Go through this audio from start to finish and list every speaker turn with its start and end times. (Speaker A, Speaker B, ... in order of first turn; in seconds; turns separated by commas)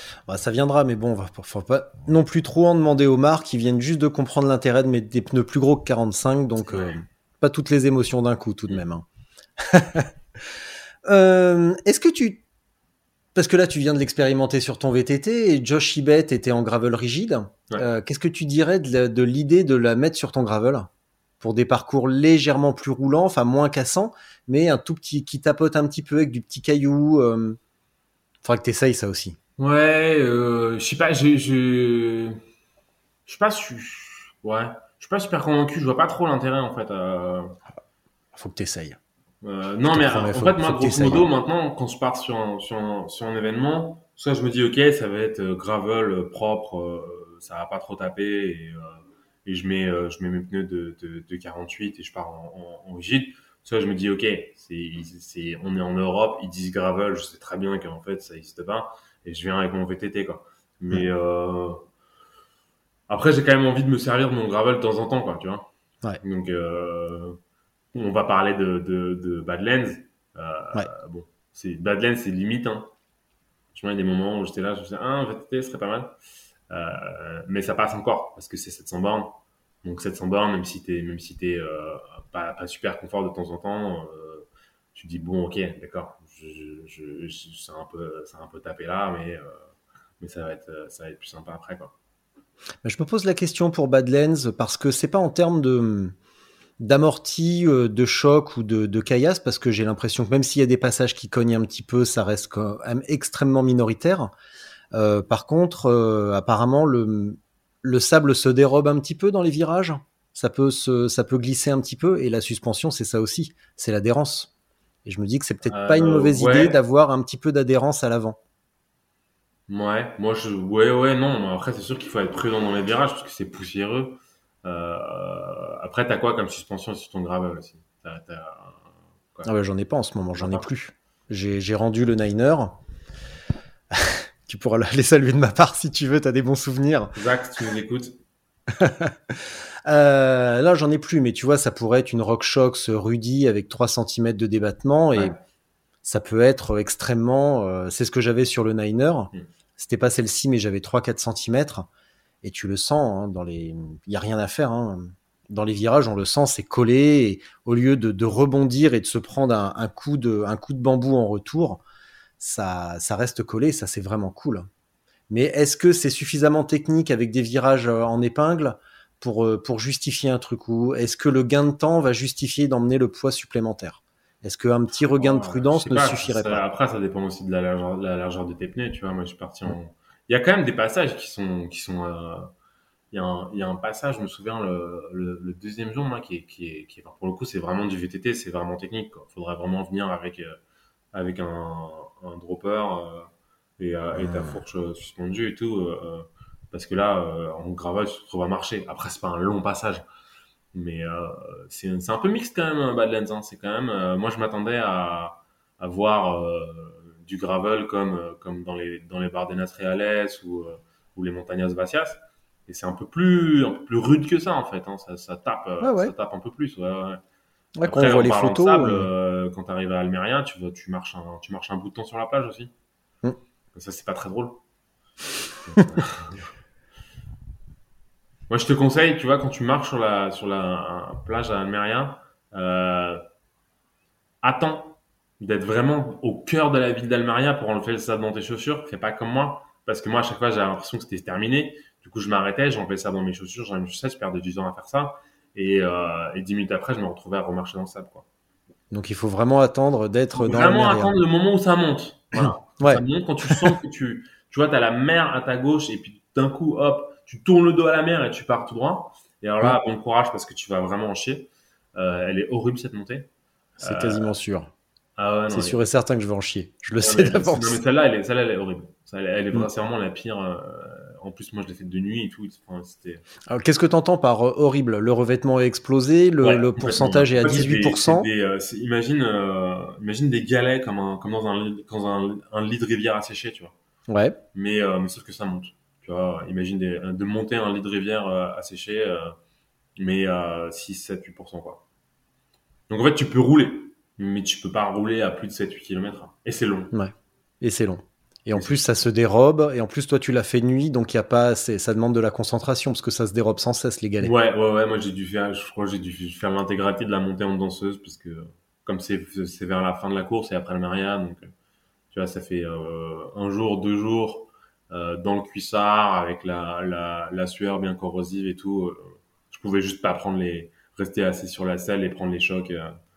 Speaker A: 0.3-9.0, Speaker B: 6.6-7.0, Speaker A: 9.6-10.1, Speaker A: 11.0-12.4, Speaker A: 13.3-20.9, Speaker A: 21.4-27.6, Speaker A: 28.4-29.4, Speaker B: 29.6-32.4, Speaker B: 33.3-37.6, Speaker A: 38.3-39.0, Speaker B: 39.4-61.8, Speaker A: 39.9-41.3, Speaker B: 63.1-65.7, Speaker B: 66.2-67.4, Speaker B: 67.9-72.9, Speaker B: 73.7-76.1, Speaker B: 76.7-89.6, Speaker B: 90.2-91.9, Speaker A: 92.8-96.1, Speaker A: 96.8-104.3, Speaker A: 104.9-114.5, Speaker A: 115.0-118.4, Speaker B: 115.7-116.8, Speaker B: 119.7-129.5, Speaker A: 129.4-132.8, Speaker B: 130.3-130.7, Speaker A: 133.9-137.1, Speaker B: 137.1-138.2, Speaker A: 138.7-145.3, Speaker B: 145.1-145.4, Speaker A: 146.0-151.9, Speaker A: 152.4-161.8, Speaker A: 162.4-164.7, Speaker A: 165.3-176.6, Speaker B: 175.1-182.5, Speaker B: 183.1-190.6, Speaker B: 191.1-200.0, Speaker A: 194.1-194.6, Speaker B: 200.7-217.2, Speaker A: 215.8-216.1, Speaker A: 217.8-219.1, Speaker B: 217.8-222.7, Speaker B: 223.7-224.6, Speaker B: 225.6-226.4, Speaker B: 228.5-233.2, Speaker B: 234.4-248.2, Speaker A: 248.9-251.1, Speaker B: 250.3-263.3, Speaker A: 252.3-253.7, Speaker B: 263.8-264.3, Speaker A: 263.8-264.7, Speaker B: 265.2-265.8, Speaker A: 265.5-267.8, Speaker B: 267.0-273.2, Speaker A: 273.5-278.3, Speaker B: 276.4-283.7, Speaker A: 284.1-284.4, Speaker B: 284.5-289.4, Speaker B: 290.0-291.8, Speaker B: 292.9-296.9, Speaker A: 296.9-304.3, Speaker B: 304.2-311.5, Speaker B: 312.1-323.0